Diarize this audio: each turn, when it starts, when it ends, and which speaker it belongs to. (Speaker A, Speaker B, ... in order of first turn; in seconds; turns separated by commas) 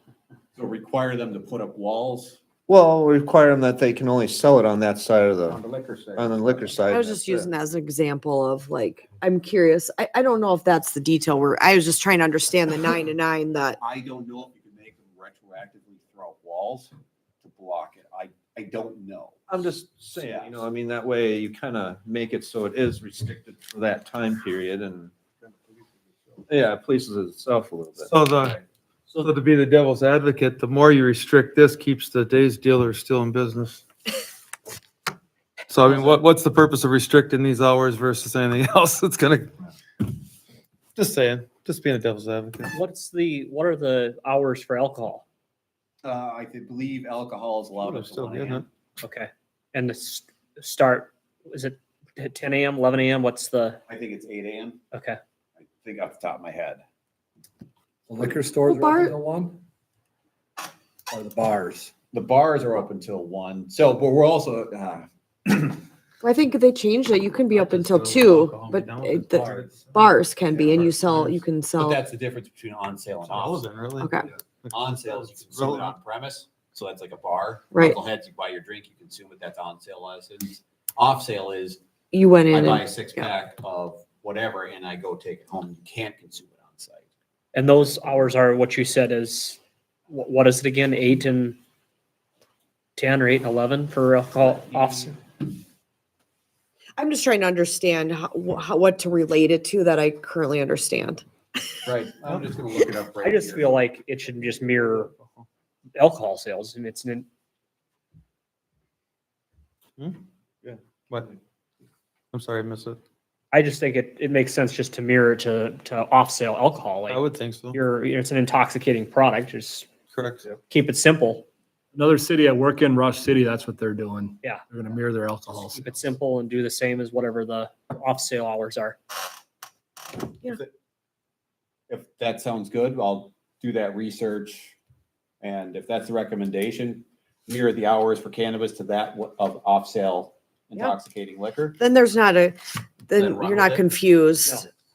Speaker A: 0.6-2.4, Speaker B: 2.7-5.6, Speaker A: 5.5-6.8, Speaker B: 6.2-7.5, Speaker C: 6.9-13.8, Speaker A: 13.8-19.4, Speaker B: 19.5-25.1, Speaker A: 20.2-20.6, Speaker B: 26.5-28.1, Speaker D: 28.0-28.6, Speaker D: 29.1-33.8, Speaker D: 35.7-39.5, Speaker A: 35.8-36.2, Speaker D: 41.0-42.8, Speaker E: 42.7-45.2, Speaker A: 46.0-48.7, Speaker D: 47.8-48.6, Speaker E: 49.0-53.8, Speaker A: 53.9-54.8, Speaker E: 54.9-55.2, Speaker A: 55.6-56.8, Speaker F: 58.1-59.6, Speaker C: 58.7-59.1, Speaker F: 61.1-61.9, Speaker A: 62.1-65.8, Speaker C: 66.2-72.0, Speaker D: 67.5-70.1, Speaker D: 71.1-71.3, Speaker A: 71.8-73.7, Speaker D: 73.3-74.2, Speaker C: 74.0-74.3, Speaker D: 74.7-75.9, Speaker A: 74.7-81.8, Speaker C: 77.7-78.0, Speaker C: 82.1-83.3, Speaker A: 82.5-87.1, Speaker E: 87.5-91.6, Speaker E: 93.0-95.2, Speaker C: 97.0-101.2, Speaker A: 101.8-103.8, Speaker E: 103.2-105.1, Speaker E: 106.0-107.3, Speaker D: 112.3-113.0, Speaker E: 113.5-119.9, Speaker D: 117.1-117.8, Speaker D: 120.1-120.5, Speaker E: 120.6-121.5, Speaker F: 121.9-126.1, Speaker E: 124.4-124.7, Speaker E: 125.7-129.0, Speaker A: 131.9-134.8, Speaker A: 135.4-141.8, Speaker C: 141.8-142.6, Speaker C: 143.1-144.7, Speaker A: 143.2-143.8